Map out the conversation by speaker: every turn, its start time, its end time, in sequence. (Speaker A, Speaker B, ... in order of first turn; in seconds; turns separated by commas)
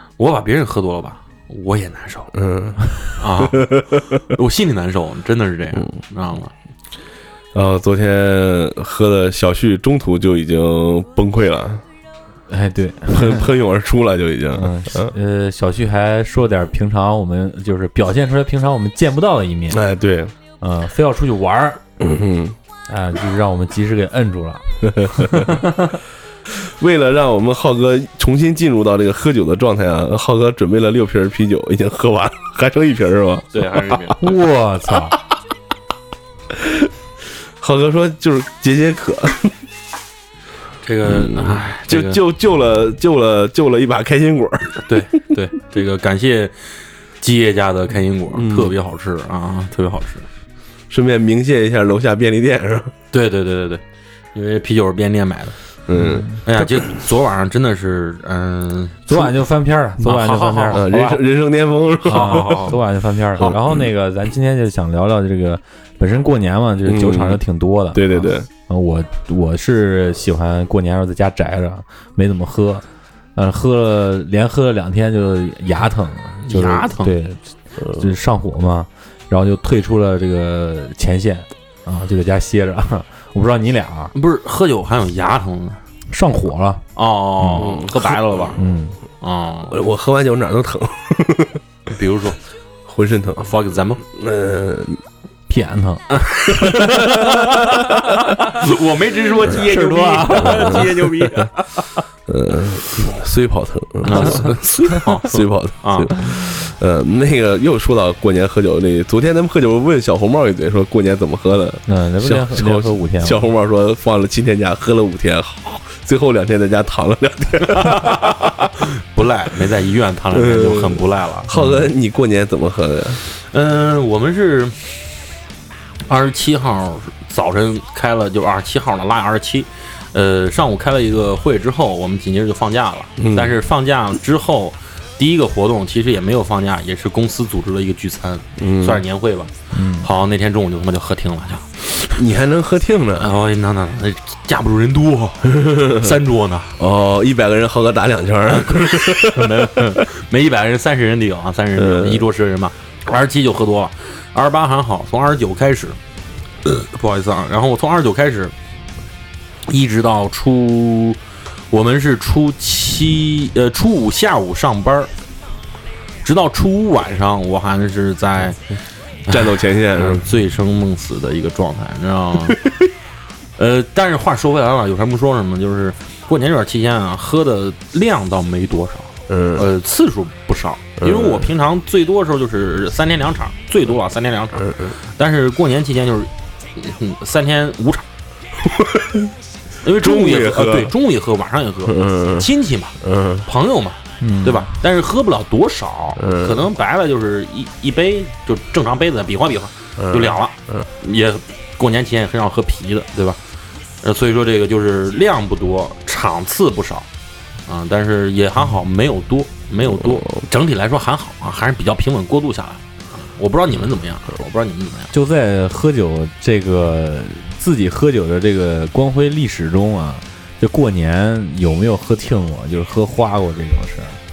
Speaker A: 0.2-2.3, Speaker B: 2.3-4.2, Speaker A: 3.2-6.5, Speaker B: 7.5-11.8, Speaker C: 12.5-13.5, Speaker B: 13.1-15.1, Speaker C: 14.6-19.8, Speaker B: 19.7-20.3, Speaker C: 20.6-21.8, Speaker B: 22.0-22.6, Speaker C: 22.9-25.9, Speaker B: 24.9-25.6, Speaker B: 26.6-34.1, Speaker A: 33.5-34.2, Speaker C: 34.2-35.2, Speaker B: 36.5-36.9, Speaker B: 37.6-39.5, Speaker A: 40.8-42.2, Speaker B: 41.1-44.8, Speaker A: 44.8-46.6, Speaker A: 47.2-50.3, Speaker B: 48.3-48.7, Speaker B: 50.9-52.9, Speaker A: 53.1-53.8, Speaker A: 54.4-55.6, Speaker B: 55.9-56.6, Speaker C: 56.0-56.4, Speaker A: 56.5-59.2, Speaker C: 59.1-61.2, Speaker A: 60.0-61.0, Speaker B: 60.7-62.8, Speaker A: 62.1-62.8, Speaker C: 62.1-72.8, Speaker B: 63.4-63.7, Speaker B: 66.8-67.4, Speaker B: 67.9-68.5, Speaker C: 73.4-84.1, Speaker A: 76.5-77.2, Speaker B: 77.8-78.1, Speaker A: 84.1-85.8, Speaker C: 86.1-86.8, Speaker A: 87.0-88.6, Speaker C: 87.4-87.7, Speaker B: 87.6-88.2, Speaker C: 88.6-89.0, Speaker A: 89.2-89.8, Speaker B: 89.7-91.6, Speaker A: 91.9-92.4, Speaker B: 92.8-93.5, Speaker A: 93.4-94.0, Speaker B: 94.1-95.0, Speaker C: 95.5-98.6, Speaker A: 96.1-101.9, Speaker C: 99.4-101.1, Speaker B: 100.4-101.5, Speaker B: 102.3-104.6, Speaker A: 104.0-106.3, Speaker C: 104.2-105.0, Speaker B: 105.2-118.7, Speaker C: 111.9-113.5, Speaker A: 117.8-121.5, Speaker B: 120.3-123.2, Speaker C: 121.5-121.9, Speaker A: 123.3-125.0, Speaker A: 126.1-142.2, Speaker B: 133.2-133.6, Speaker B: 138.6-139.0, Speaker C: 139.7-140.1, Speaker B: 142.2-143.3, Speaker A: 143.2-146.8, Speaker B: 145.5-146.1, Speaker B: 146.8-149.8, Speaker A: 148.5-156.0, Speaker B: 151.8-152.3, Speaker A: 156.9-158.5, Speaker A: 159.7-161.2, Speaker A: 161.7-165.1, Speaker A: 166.2-168.6, Speaker A: 169.3-172.6, Speaker B: 169.3-170.2, Speaker B: 172.5-172.8, Speaker A: 173.6-188.1, Speaker B: 179.3-179.7, Speaker B: 181.0-181.5, Speaker B: 184.6-184.9, Speaker B: 188.6-189.3, Speaker A: 189.8-203.4, Speaker B: 189.9-190.9, Speaker B: 191.9-192.5, Speaker B: 193.0-193.5, Speaker C: 194.2-194.8, Speaker B: 196.2-196.6, Speaker B: 200.0-200.9, Speaker A: 204.0-207.1, Speaker A: 207.7-215.1, Speaker B: 209.9-210.4, Speaker C: 215.1-224.2